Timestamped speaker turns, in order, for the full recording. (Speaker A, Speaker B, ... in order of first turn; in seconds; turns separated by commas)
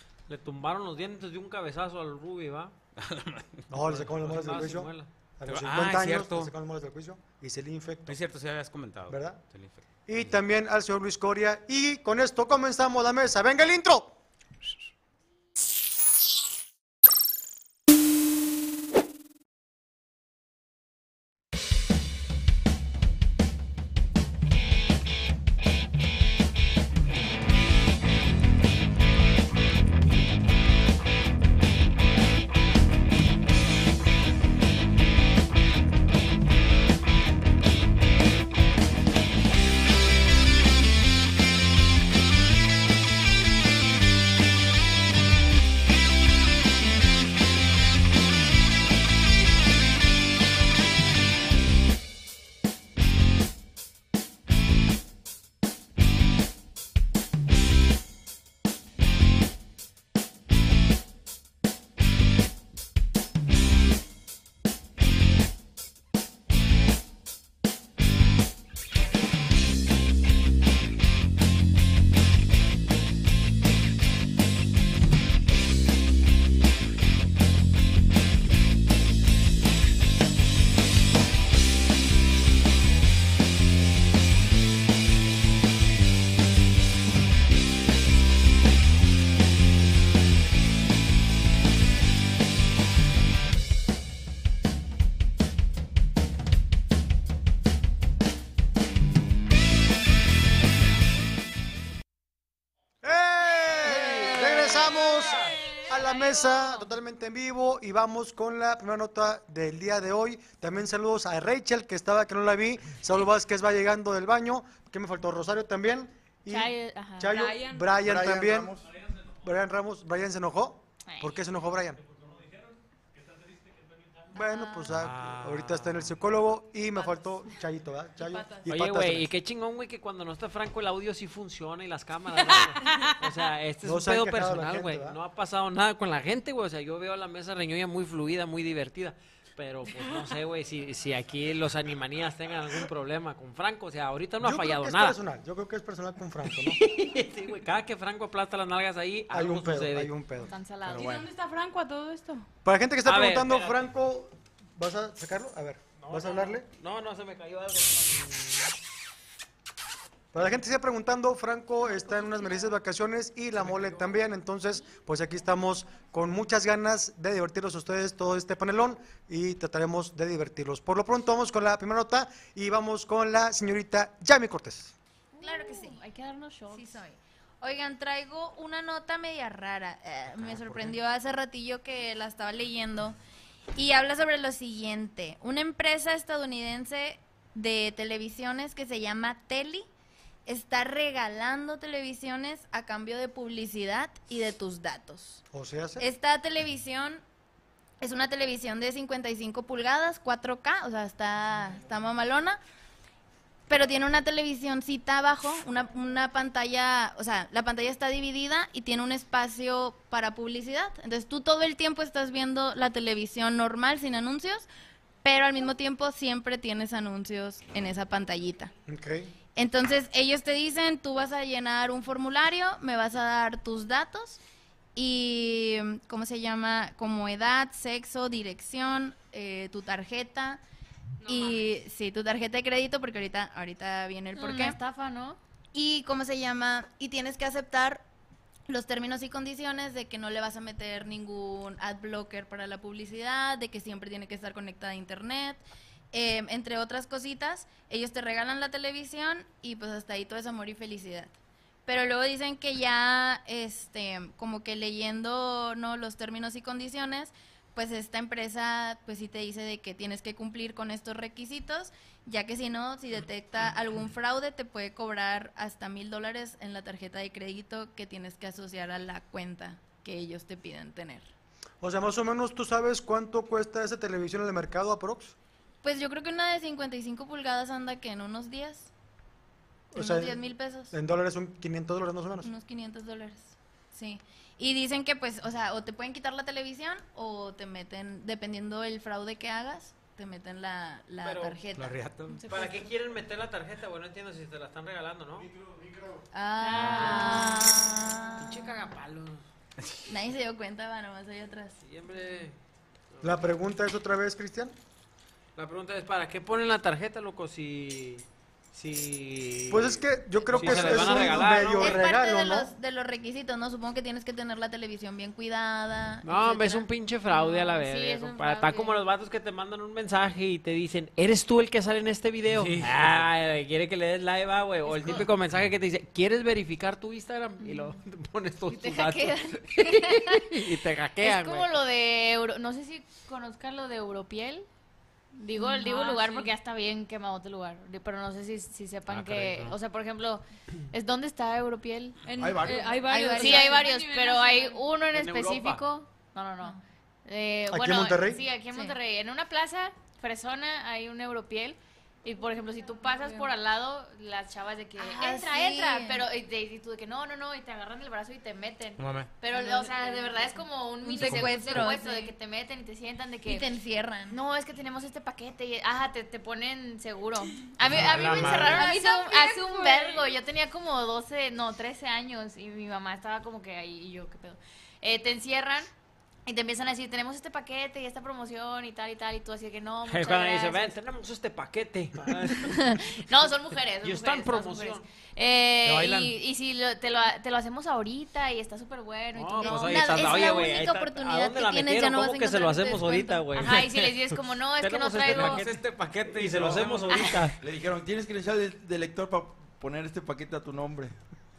Speaker A: 0.3-2.7, Speaker B: 3.0-3.7, Speaker C: 3.7-8.2, Speaker A: 3.9-5.1, Speaker B: 5.5-6.5, Speaker B: 8.1-10.3, Speaker C: 9.1-9.4, Speaker C: 10.1-14.1, Speaker C: 103.0-118.7, Speaker D: 116.5-117.3, Speaker E: 117.2-118.0, Speaker F: 118.0-118.8, Speaker C: 119.4-122.0, Speaker D: 121.0-121.3, Speaker C: 124.3-129.3, Speaker G: 124.3-124.8, Speaker B: 124.9-126.2, Speaker E: 127.0-127.4, Speaker E: 128.2-128.7, Speaker A: 128.7-145.2, Speaker E: 132.4-133.2, Speaker C: 133.8-135.2, Speaker C: 144.4-146.8, Speaker A: 146.8-150.1, Speaker C: 149.3-150.5, Speaker D: 150.4-151.2, Speaker E: 150.9-152.5, Speaker C: 152.6-156.7, Speaker A: 153.0-153.8, Speaker A: 156.0-158.7, Speaker C: 160.3-174.9, Speaker A: 163.6-164.1, Speaker D: 175.3-177.0, Speaker G: 175.4-176.0, Speaker G: 176.7-183.2, Speaker B: 180.4-180.9, Speaker G: 183.7-189.9, Speaker G: 190.4-195.4, Speaker C: 195.5-196.1, Speaker G: 196.0-197.2, Speaker G: 198.0-202.6, Speaker G: 203.7-214.7, Speaker G: 215.2-218.7, Speaker C: 218.9-219.3, Speaker G: 219.5-224.4, Speaker G: 224.9-230.6, Speaker E: 231.2-231.7, Speaker G: 231.2-234.8, Speaker D: 234.3-235.4, Speaker G: 235.7-238.0, Speaker G: 238.7-251.3, Speaker G: 251.8-271.3, Speaker C: 271.8-275.3, Speaker G: 275.8-278.9, Speaker C: 279.9-280.4, Speaker G: 279.9-280.9, Speaker C: 280.9-282.5, Speaker G: 282.4-291.9, Speaker A: 291.2-291.6, Speaker B: 291.8-292.4, Speaker A: 292.5-295.5, Speaker G: 296.3-298.7, Speaker D: 296.6-297.8, Speaker A: 296.9-297.4, Speaker A: 298.4-299.4, Speaker G: 300.1-301.8, Speaker A: 301.8-302.6, Speaker A: 303.1-303.4, Speaker C: 303.2-304.7, Speaker A: 305.6-312.0, Speaker C: 309.7-312.7, Speaker G: 310.7-316.9, Speaker A: 316.2-331.7, Speaker D: 317.4-318.9, Speaker B: 322.5-323.3, Speaker D: 327.6-327.9, Speaker D: 328.7-330.4, Speaker D: 331.2-334.7, Speaker D: 335.4-342.2, Speaker E: 335.6-336.5, Speaker B: 339.1-339.8, Speaker E: 342.2-344.9, Speaker F: 342.3-343.1, Speaker G: 343.0-343.9, Speaker D: 343.4-363.7, Speaker A: 345.1-345.8, Speaker C: 347.7-348.4, Speaker G: 353.1-353.5, Speaker G: 355.0-356.2, Speaker B: 359.0-359.4, Speaker G: 359.5-360.5, Speaker G: 361.0-362.3, Speaker B: 361.2-361.9, Speaker G: 363.4-364.4, Speaker D: 364.3-375.9, Speaker B: 367.8-368.9, Speaker G: 368.1-369.8, Speaker E: 368.6-370.2, Speaker D: 376.4-380.9, Speaker A: 380.1-383.0, Speaker D: 382.6-390.8, Speaker A: 384.0-385.0, Speaker B: 385.9-386.3, Speaker A: 389.4-393.8, Speaker G: 389.6-393.6, Speaker D: 393.6-395.6, Speaker B: 393.6-394.0, Speaker A: 394.8-395.8, Speaker B: 395.2-397.4, Speaker A: 396.3-397.5, Speaker F: 396.5-397.0, Speaker D: 397.1-397.4, Speaker F: 397.6-401.1